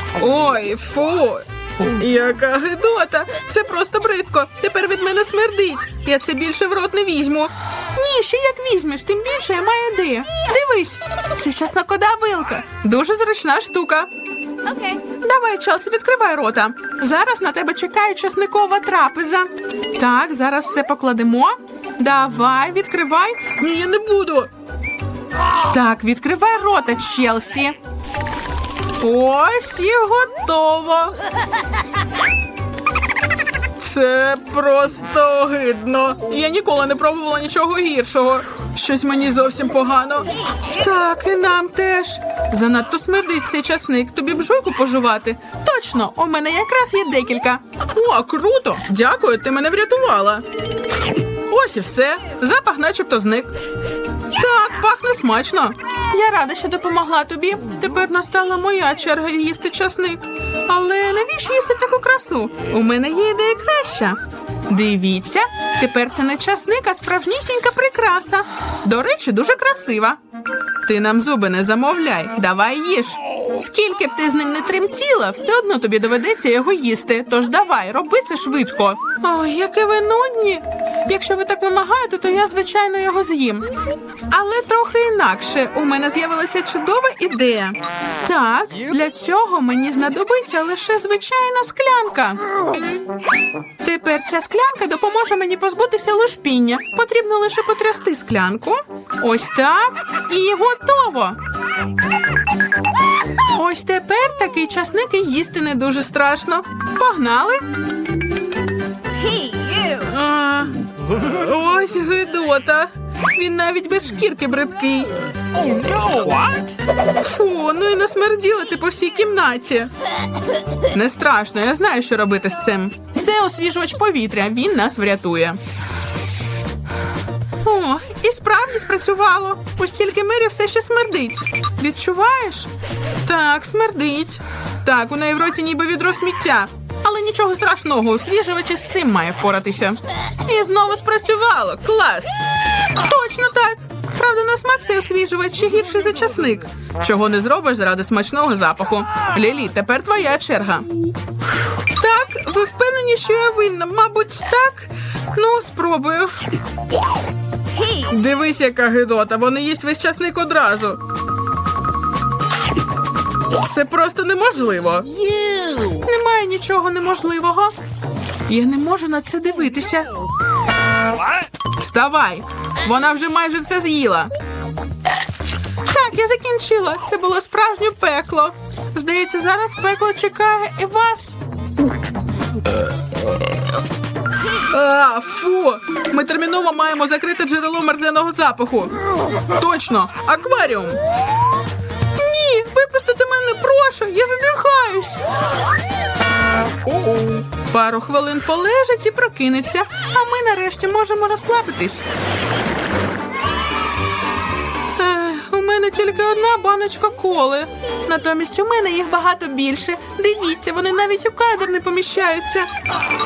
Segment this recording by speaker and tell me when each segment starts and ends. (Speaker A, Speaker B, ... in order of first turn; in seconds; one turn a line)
Speaker A: 0.1-14.1
Speaker B: 14.6-15.0
Speaker A: 15.1-24.5
Speaker A: 25.7-27.8
Speaker A: 29.0-31.1
Speaker A: 33.8-50.4
Speaker A: 51.5-53.5
Speaker A: 54.3-70.2
Speaker A: 70.8-83.7
Speaker A: 84.3-92.4
Speaker A: 93.8-101.4
Speaker A: 103.5-107.6
Speaker B: 109.1-110.1
Speaker A: 110.0-115.2
Speaker B: 115.8-116.4
Speaker A: 117.2-119.9
Speaker A: 120.9-125.6
Speaker A: 127.6-132.7
Speaker A: 133.2-142.4
Speaker A: 142.9-150.9
Speaker A: 151.9-156.3
Speaker B: 157.7-158.2
Speaker A: 158.1-161.0
Speaker A: 163.5-165.1
Speaker B: 165.1-166.1
Speaker A: 166.0-167.7
Speaker A: 168.5-170.1
Speaker A: 171.8-174.3
Speaker A: 175.9-181.4
Speaker A: 184.6-188.9
Speaker A: 189.5-191.0
Speaker A: 192.1-195.2
Speaker A: 196.9-202.0
Speaker A: 204.9-212.7